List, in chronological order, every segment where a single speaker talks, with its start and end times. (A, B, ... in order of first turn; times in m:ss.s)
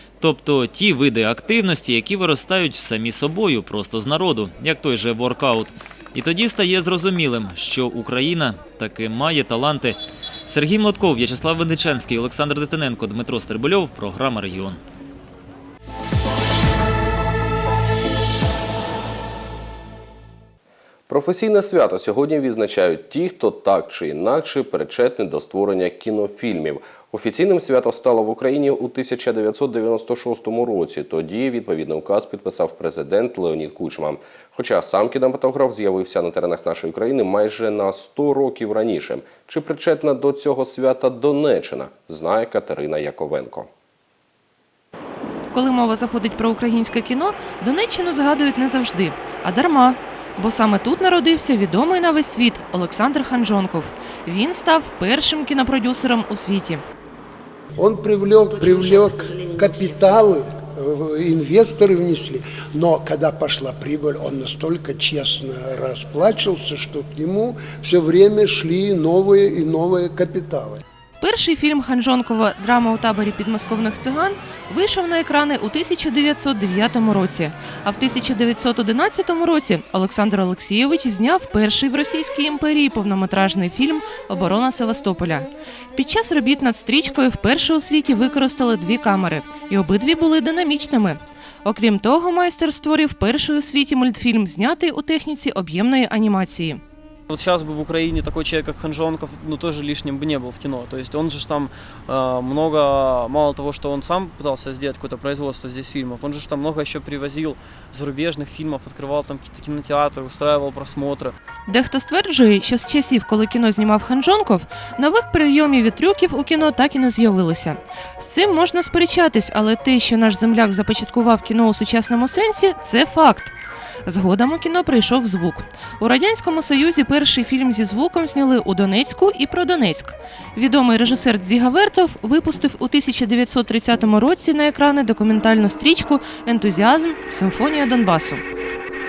0:00.2-0:14.8 A
0:21.1-0:43.7 B
0:45.5-0:56.8 C
0:57.7-1:10.8 D
1:11.2-1:36.8 C
1:37.3-1:51.3 E
1:51.7-2:03.5 C
2:04.0-2:18.4 C